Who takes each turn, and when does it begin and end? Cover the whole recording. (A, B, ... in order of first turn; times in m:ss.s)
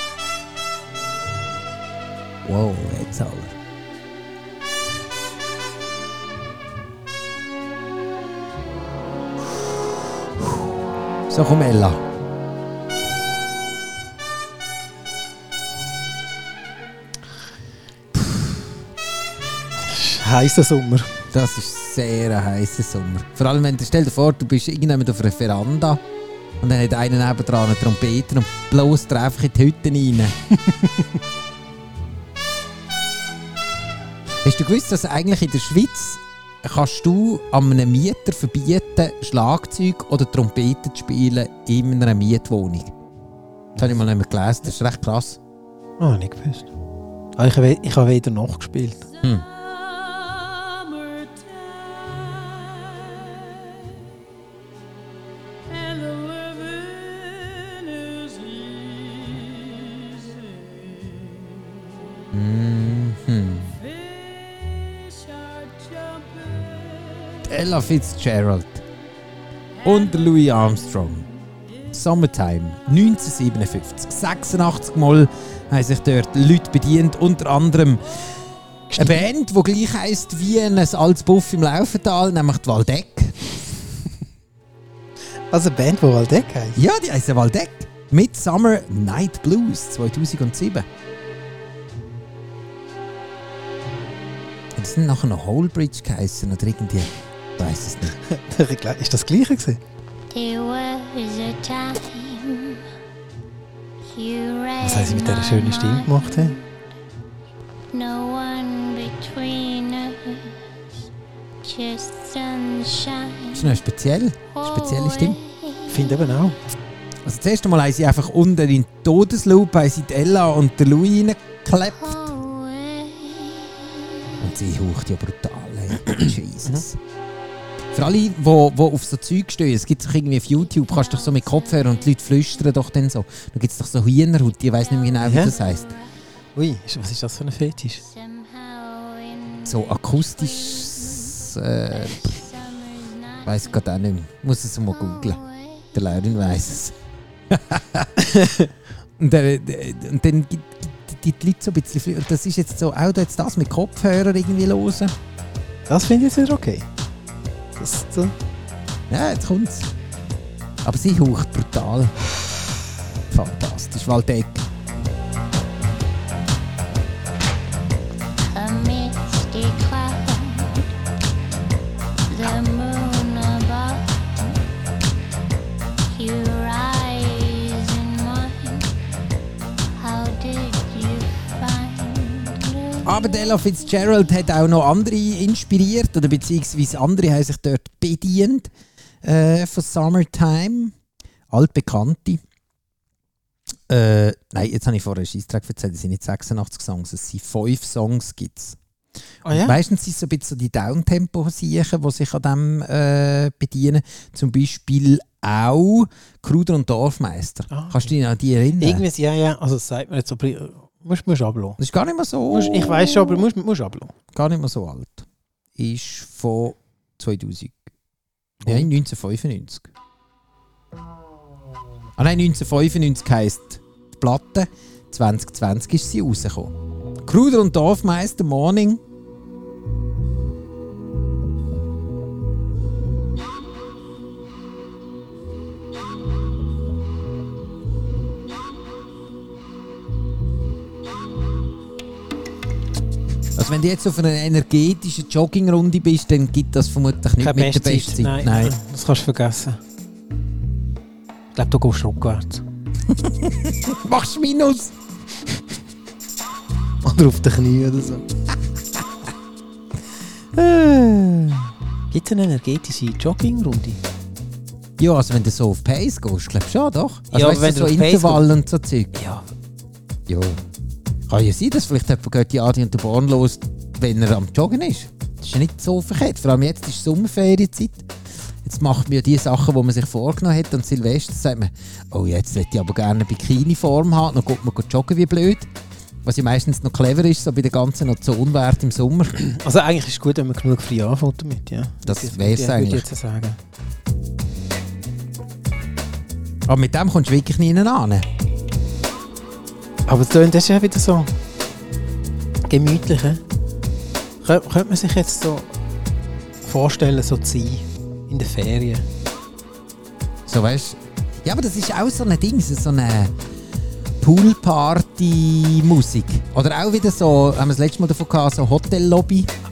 0:02.4-0:03.6 A
0:11.3-0:12.0 A
0:19.8-0:21.2 B
0:21.3-0:26.0 A
0:26.6-0:30.4 A
0:30.6-0:31.1 B
0:34.4-0:42.9 A
0:43.8-0:45.4 A
0:46.0-0:46.7 B
0:47.4-0:49.1 B
0:52.0-0:52.7 C
0:56.1-0:56.9 C
0:57.5-0:58.2 C
1:02.3-1:03.8 A
1:07.4-1:08.8 A
1:09.8-1:11.3 A
1:11.9-1:18.3 A
1:18.9-1:19.2 B
1:19.0-1:23.7 A
1:25.5-1:26.8 B
1:26.8-1:30.9 A
1:34.8-1:38.2 A
1:38.2-1:39.8 B
1:40.3-1:42.8 C
1:44.1-1:46.6 C
1:44.8-1:46.6 B
1:47.9-1:50.6 C
1:51.6-1:53.8 C
1:53.5-1:55.4 A
1:54.6-1:56.2 C
1:55.9-1:56.6 B
1:57.2-2:02.2 A
2:01.8-2:04.4 C
2:04.4-2:07.0 A
2:07.9-2:15.9 A
2:10.8-2:11.9 C
2:14.8-2:16.1 C
2:15.2-2:15.5 B
2:16.6-2:18.0 B
2:18.0-2:23.8 C
2:19.6-2:22.4 A
2:23.4-2:25.4 A
2:24.9-2:26.0 C
2:25.9-2:27.0 A
2:27.5-2:28.2 A
2:28.2-2:28.7 B
2:29.2-2:35.1 A
2:35.9-2:36.9 B
2:37.8-2:38.3 B
2:39.1-2:39.9 A
2:40.8-2:42.2 A
2:43.3-2:44.6 A
2:48.4-2:50.9 C
2:52.3-2:54.6 C
2:56.1-2:58.9 C
3:00.0-3:03.2 C
3:03.0-3:08.7 A
3:09.2-3:10.9 A
3:11.5-3:12.4 A
3:13.9-3:18.8 A
3:19.4-3:19.8 B
3:19.5-3:29.0 A
3:27.7-3:28.1 B
3:28.8-3:31.8 B
3:31.8-3:33.4 A
3:32.5-3:34.2 B
3:34.3-3:37.9 A
3:38.6-3:38.9 B
3:38.6-3:39.9 A
3:42.2-3:49.0 A
4:03.6-4:08.8 A
4:07.4-4:09.8 B
4:11.5-4:12.6 B
4:13.1-4:14.9 A
4:17.0-4:18.3 B
4:20.6-4:21.7 A
4:22.1-4:24.0 B
4:25.0-4:29.1 A
4:27.3-4:28.5 B
4:29.1-4:29.5 B
4:30.3-4:30.6 A
4:31.3-4:38.1 A
4:38.6-4:45.7 A
4:46.2-4:49.4 A
4:49.4-4:53.6 B
4:52.0-4:53.1 A
4:56.7-4:58.3 A
5:00.1-5:01.3 B
5:02.7-5:03.4 B
5:04.4-5:05.7 B
5:06.6-5:09.0 B
5:10.5-5:13.3 A
5:14.2-5:19.5 A